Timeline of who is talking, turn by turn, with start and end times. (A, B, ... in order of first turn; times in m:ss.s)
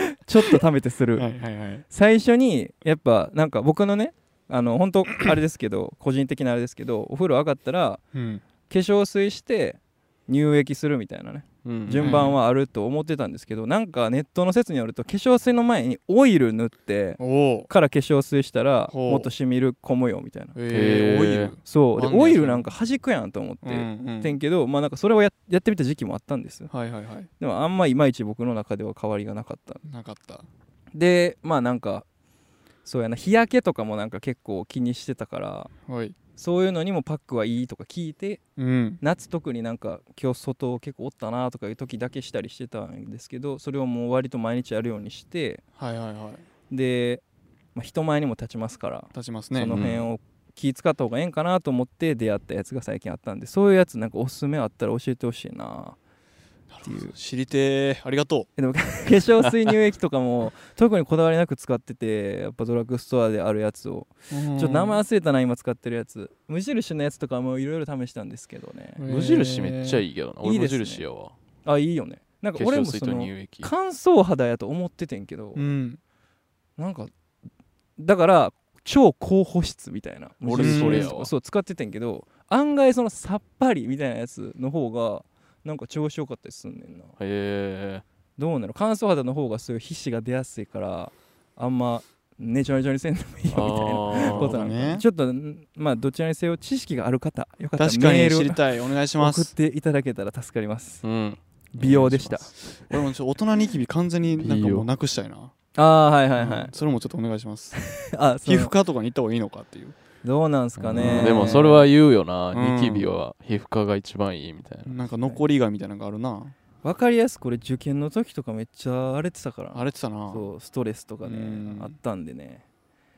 0:00.3-0:01.2 A
0:01.2-0:01.8 B
0:01.9-0:08.0 A
0:08.1-0:08.4 B
0:08.7-0:20.5 A
0:11.6-0:12.3 C
0:12.0-0:12.4 B
0:17.2-0:17.7 B
0:18.9-0:19.3 B
0:20.5-0:22.7 B
0:20.7-0:21.5 C
0:21.6-0:26.7 A
0:23.6-0:24.4 B
0:26.7-0:27.3 B
0:27.4-0:29.8 A
0:29.9-0:30.4 B
0:30.9-0:32.0 A
0:32.8-0:35.7 A
0:35.9-0:36.2 B
0:36.4-0:38.4 A
0:38.6-0:39.0 B
0:39.0-0:45.6 A
0:45.8-0:46.4 B
0:46.7-0:47.2 A
0:47.7-0:56.0 A
0:49.1-0:49.8 B
0:49.7-0:50.1 C
0:56.7-0:58.5 B
0:56.8-0:57.1 A
0:58.6-1:09.0 A
1:04.3-1:05.0 B
1:09.0-1:10.0 B
1:09.1-1:11.3 C
1:10.4-1:11.0 A
1:11.6-1:15.6 A
1:12.6-1:13.7 C
1:15.6-1:16.0 B
1:16.8-1:17.1 A
1:18.0-1:27.1 A
1:20.4-1:21.3 C
1:20.6-1:21.1 B
1:27.2-1:28.0 C
1:28.4-1:38.6 A
1:33.5-1:34.6 C
1:34.1-1:35.0 B
1:37.8-1:39.5 B
1:39.2-1:41.0 A
1:41.0-1:41.4 C
1:41.7-1:42.5 A
1:41.8-1:45.5 B
1:44.4-1:44.9 C
1:45.7-1:46.7 A
1:46.4-1:47.8 B
1:48.0-1:48.7 A
1:48.4-1:49.9 B
1:50.2-1:51.9 A
1:50.8-1:54.9 C
1:51.0-1:51.7 B
1:52.5-1:53.1 B
1:54.8-1:56.5 B
1:56.8-2:02.6 A
1:59.7-2:00.5 B
2:01.2-2:01.9 B